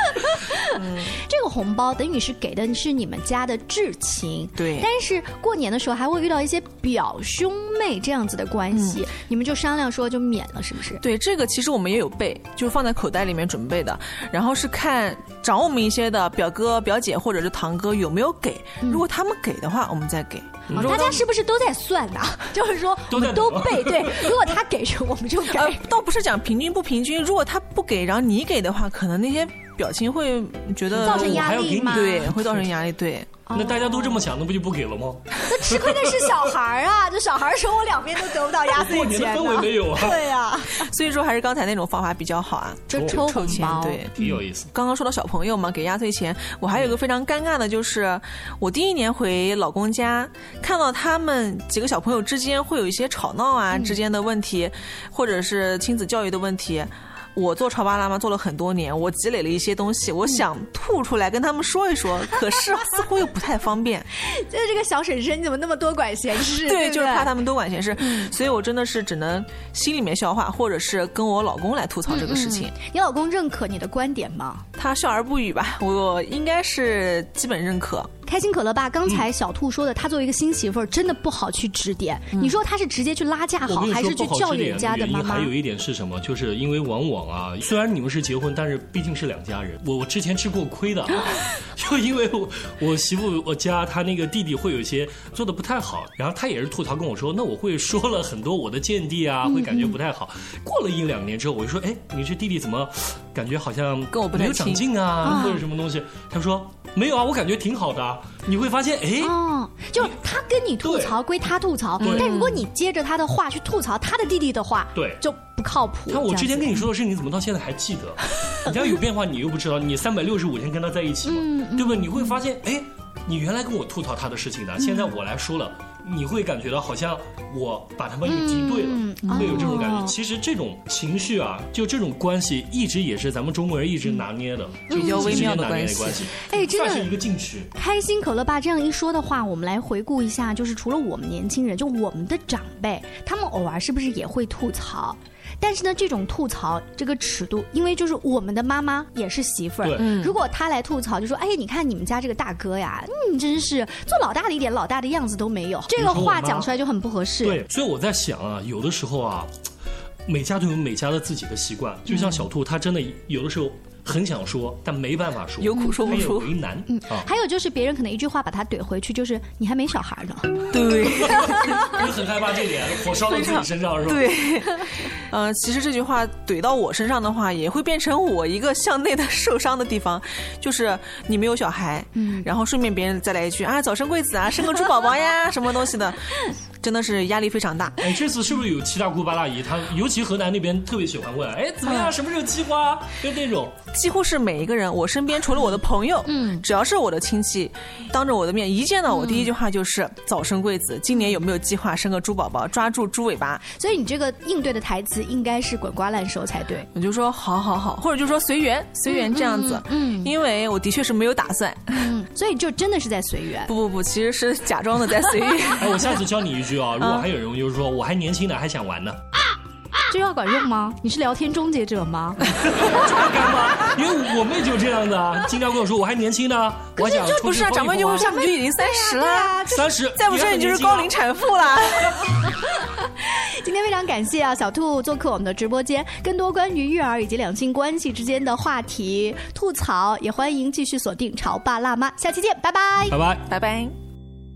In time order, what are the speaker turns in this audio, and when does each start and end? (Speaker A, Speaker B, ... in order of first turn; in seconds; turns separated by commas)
Speaker A: 0.5-11.0, Speaker B: 0.8-1.2, Speaker B: 4.6-4.9, Speaker B: 8.7-9.0, Speaker B: 11.0-21.2, Speaker C: 20.7-21.2, Speaker A: 20.7-25.8, Speaker C: 23.1-24.4, Speaker B: 25.5-33.4, Speaker C: 30.9-32.7, Speaker A: 31.0-32.3, Speaker A: 33.5-34.3, Speaker C: 33.5-36.5, Speaker A: 35.5-40.9, Speaker C: 38.7-40.3, Speaker B: 40.8-64.1, Speaker A: 42.9-44.4, Speaker C: 42.9-44.7, Speaker A: 53.7-54.0, Speaker A: 64.2-67.3, Speaker B: 66.6-72.7, Speaker A: 68.0-68.3, Speaker A: 72.1-74.6, Speaker B: 74.8-78.1, Speaker A: 78.3-85.5, Speaker C: 83.7-109.4, Speaker A: 99.5-100.0, Speaker B: 104.1-105.5, Speaker A: 105.2-105.6, Speaker A: 109.2-116.9, Speaker C: 110.8-111.2, Speaker B: 112.0-112.7, Speaker C: 112.0-112.3, Speaker C: 115.0-115.2, Speaker C: 116.1-137.7, Speaker A: 121.3-122.4, Speaker A: 124.8-125.1, Speaker A: 128.3-130.1, Speaker B: 129.2-129.7, Speaker A: 134.9-135.6, Speaker B: 134.9-136.3, Speaker A: 136.4-137.1, Speaker A: 137.7-157.6, Speaker B: 150.0-150.4, Speaker C: 155.9-156.7, Speaker C: 157.4-159.5, Speaker C: 160.3-167.3, Speaker B: 165.6-166.5, Speaker A: 165.8-166.2, Speaker A: 166.9-172.0, Speaker B: 170.7-171.8, Speaker C: 171.2-174.3, Speaker B: 173.3-188.0, Speaker A: 182.2-182.5, Speaker C: 188.0-193.8, Speaker B: 193.9-203.6, Speaker A: 196.3-196.7, Speaker A: 199.1-199.5, Speaker A: 203.7-206.9, Speaker B: 206.9-212.0, Speaker A: 209.1-210.3, Speaker A: 211.9-213.7, Speaker B: 213.7-216.0, Speaker C: 215.8-219.2, Speaker A: 220.1-222.4, Speaker C: 222.6-228.4, Speaker A: 227.0-227.4, Speaker B: 227.4-229.6, Speaker A: 228.1-229.9, Speaker C: 229.7-231.1, Speaker B: 230.2-232.2, Speaker A: 233.1-243.2, Speaker C: 243.1-243.4, Speaker B: 243.5-243.9